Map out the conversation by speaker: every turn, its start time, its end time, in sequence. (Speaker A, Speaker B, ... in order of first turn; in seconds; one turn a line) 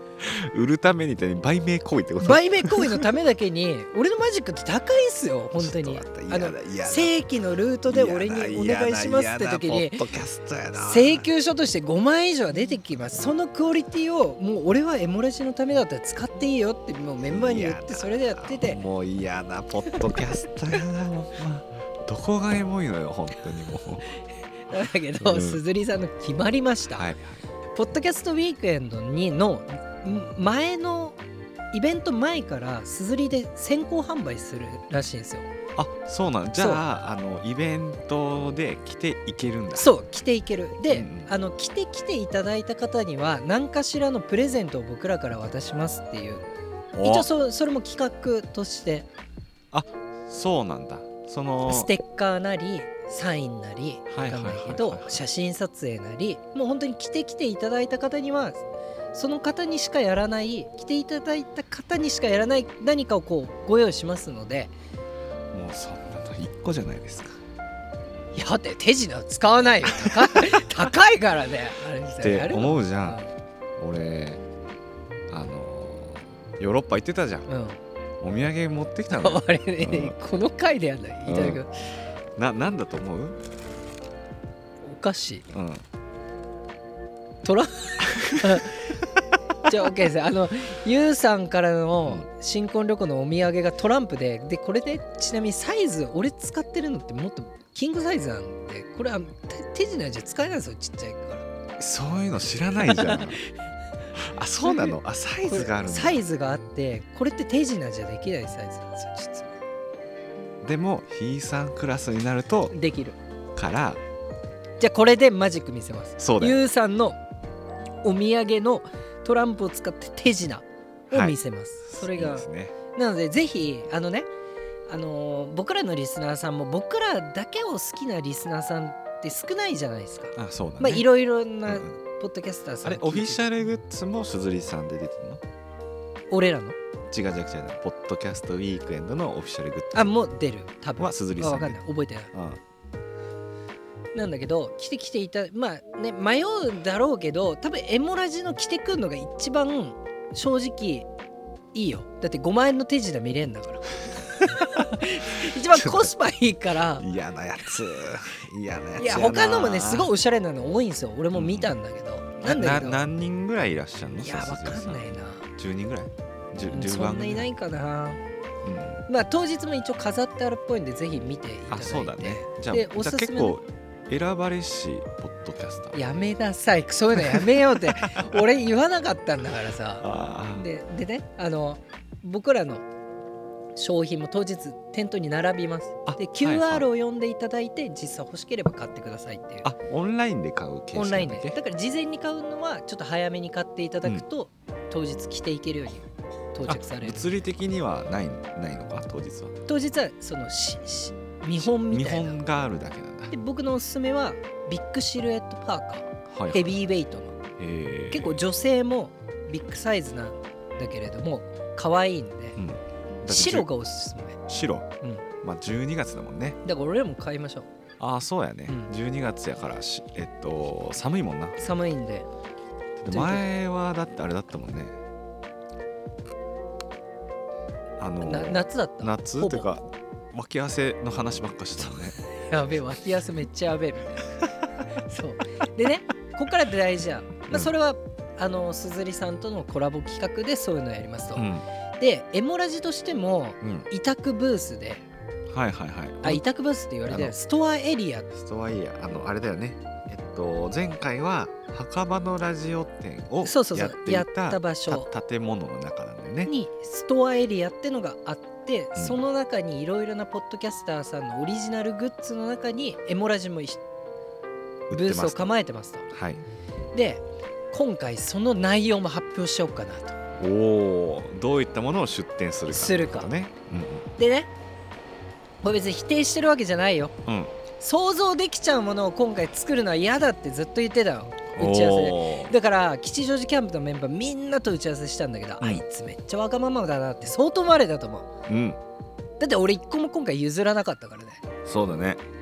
Speaker A: 0.2-3.1
Speaker B: 2.2-10.1
Speaker A: 5.6-7.1
Speaker A: 7.9-11.3
Speaker B: 10.7-18.8
Speaker A: 17.2-24.1
Speaker B: 24.7-27.1
Speaker A: 25.2-25.6
Speaker A: 26.9-27.4
Speaker B: 27.7-31.2
Speaker B: 31.7-35.5
Speaker A: 35.8-39.9
Speaker B: 36.6-36.8
Speaker B: 39.7-46.5
Speaker A: 40.9-41.3
Speaker A: 46.9-47.3
Speaker B: 47.0-49.1
Speaker A: 49.7-51.9
Speaker B: 51.6-64.7
Speaker A: 54.1-55.2
Speaker A: 65.5-67.4
Speaker B: 68.3-73.3
Speaker A: 69.8-70.7
Speaker A: 72.2-73.2
Speaker A: 73.8-74.4
Speaker A: 75.3-77.5
Speaker B: 77.5-77.8
Speaker A: 78.2-80.2
Speaker B: 79.1-81.7
Speaker A: 81.2-81.6
Speaker A: 82.3-83.4
Speaker B: 84.8-85.5
Speaker A: 85.5-85.8
Speaker B: 87.4-89.0
Speaker A: 88.3-88.6
Speaker B: 89.6-101.5
Speaker A: 101.8-103.4
Speaker B: 102.9-103.4
Speaker A: 104.1-106.2
Speaker B: 104.6-109.6
Speaker A: 110.6-112.7
Speaker B: 112.7-113.2
Speaker A: 113.5-114.0
Speaker B: 114.8-117.2
Speaker A: 116.2-116.6
Speaker B: 118.0-124.3
Speaker A: 121.1-122.7
Speaker B: 124.9-133.4
Speaker A: 130.3-131.1
Speaker A: 131.7-132.0
Speaker A: 132.8-135.4
Speaker B: 136.3-136.8
Speaker A: 137.1-140.1
Speaker B: 139.9-142.3
Speaker A: 141.0-141.8
Speaker A: 142.3-142.6
Speaker B: 144.1-151.1
Speaker B: 151.7-157.0
Speaker A: 155.7-156.1
Speaker A: 157.0-160.1
Speaker B: 158.9-163.0
Speaker A: 161.3-161.7
Speaker A: 162.4-167.5
Speaker B: 164.2-165.5
Speaker B: 166.7-168.2
Speaker A: 168.6-169.0
Speaker B: 169.1-173.6
Speaker A: 171.7-176.0
Speaker B: 175.9-182.8
Speaker A: 177.2-177.6
Speaker A: 178.1-178.4
Speaker A: 180.0-180.7
Speaker B: 183.8-189.7
Speaker A: 186.0-186.9
Speaker A: 189.6-191.6
Speaker B: 190.9-197.3
Speaker A: 196.7-199.6
Speaker B: 199.7-202.4
Speaker A: 201.6-203.3
Speaker B: 203.3-207.4
Speaker A: 206.3-206.8
Speaker A: 207.6-208.4
Speaker B: 208.1-212.6
Speaker A: 212.6-213.7
Speaker B: 213.2-214.4
Speaker A: 214.5-214.9
Speaker B: 215.0-215.2
Speaker A: 215.4-216.6
Speaker B: 216.6-217.7
Speaker A: 218.0-221.6
Speaker B: 218.7-218.9
Speaker B: 221.6-222.3
Speaker A: 223.0-225.0
Speaker B: 223.1-223.5
Speaker A: 228.0-232.2
Speaker B: 228.2-229.7
Speaker B: 232.2-234.3
Speaker B: 235.1-245.0
Speaker A: 241.3-241.6
Speaker A: 243.6-243.9
Speaker A: 245.5-246.4
Speaker B: 246.2-248.3
Speaker A: 247.1-247.3
Speaker A: 248.3-256.5
Speaker B: 253.4-255.1
Speaker B: 256.4-263.8
Speaker A: 264.9-265.5
Speaker B: 264.9-266.1
Speaker A: 266.1-266.4
Speaker B: 266.9-270.2
Speaker A: 270.4-274.1
Speaker B: 272.7-273.3
Speaker B: 274.2-274.5
Speaker B: 275.6-277.1
Speaker A: 277.2-277.5
Speaker B: 277.8-288.3
Speaker A: 281.5-282.5
Speaker A: 288.5-288.8
Speaker B: 289.4-291.4
Speaker A: 291.6-292.2